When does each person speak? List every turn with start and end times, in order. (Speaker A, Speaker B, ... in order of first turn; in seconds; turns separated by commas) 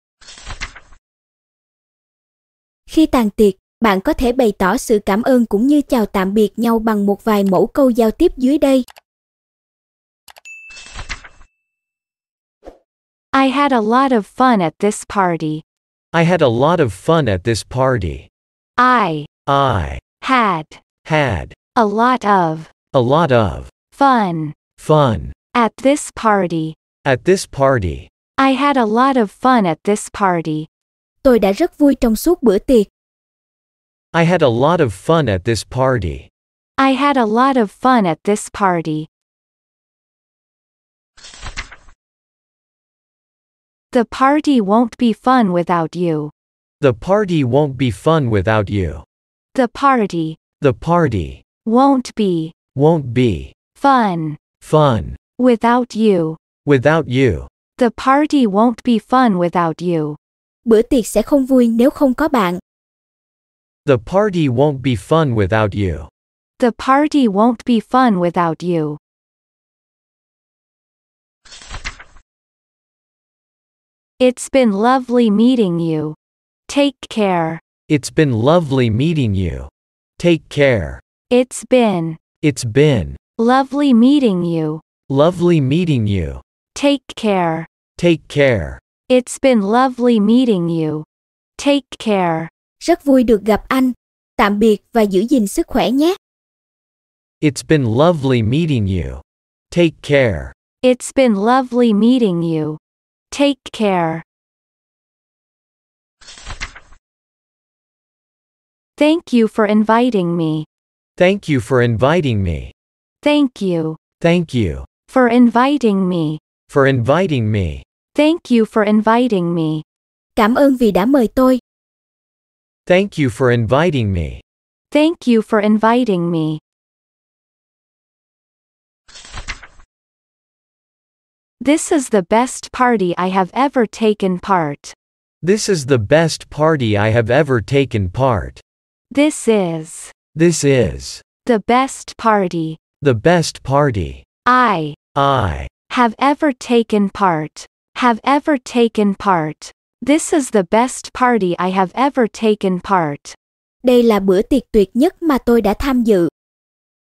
Speaker A: 2.9-8.8, Speaker B: 13.3-15.6, Speaker C: 16.1-18.3, Speaker B: 18.8-19.3, Speaker C: 19.5-20.0, Speaker B: 20.2-20.8, Speaker C: 21.0-21.6, Speaker B: 21.7-22.7, Speaker C: 22.9-23.7, Speaker B: 23.9-24.6, Speaker C: 24.8-25.3, Speaker B: 25.5-26.8, Speaker C: 27.0-28.1, Speaker B: 28.4-30.7, Speaker A: 31.2-32.9, Speaker C: 34.1-36.3, Speaker B: 36.8-39.1, Speaker B: 43.9-46.3, Speaker C: 46.8-49.0, Speaker B: 49.5-50.4, Speaker C: 50.6-51.4, Speaker B: 51.6-52.5, Speaker C: 52.7-53.5, Speaker B: 53.8-54.4, Speaker C: 54.6-55.2, Speaker B: 55.4-56.4, Speaker C: 56.6-57.5, Speaker B: 57.8-60.2, Speaker A: 60.6-62.6, Speaker C: 63.8-66.1, Speaker B: 66.6-69.0, Speaker B: 74.2-76.2, Speaker B: 76.7-77.6, Speaker C: 77.9-81.0, Speaker B: 81.3-82.2, Speaker C: 82.4-83.2, Speaker B: 83.4-84.8, Speaker C: 85.1-86.4, Speaker B: 86.7-87.7, Speaker C: 88.0-88.8, Speaker B: 89.1-91.0, Speaker B: 91.6-92.5, Speaker A: 92.8-96.2, Speaker C: 97.4-100.5, Speaker B: 100.8-102.8, Speaker B: 103.3-104.2, Speaker B: 109.0-110.7, Speaker C: 111.2-112.7, Speaker B: 113.2-114.0, Speaker C: 114.2-114.9, Speaker B: 115.1-116.4, Speaker C: 116.7-117.8, Speaker B: 118.1-119.8, Speaker A: 120.3-121.6, Speaker C: 122.8-124.4, Speaker B: 124.9-126.6, Speaker B: 131.6-134.9, Speaker C: 135.4-138.6, Speaker B: 139.1-140.1, Speaker C: 140.3-141.2, Speaker B: 141.4-142.8, Speaker C: 143.0-144.2, Speaker B: 144.4-145.0, Speaker C: 145.1-145.7, Speaker B: 145.9-153.3, Speaker A: 153.8-156.3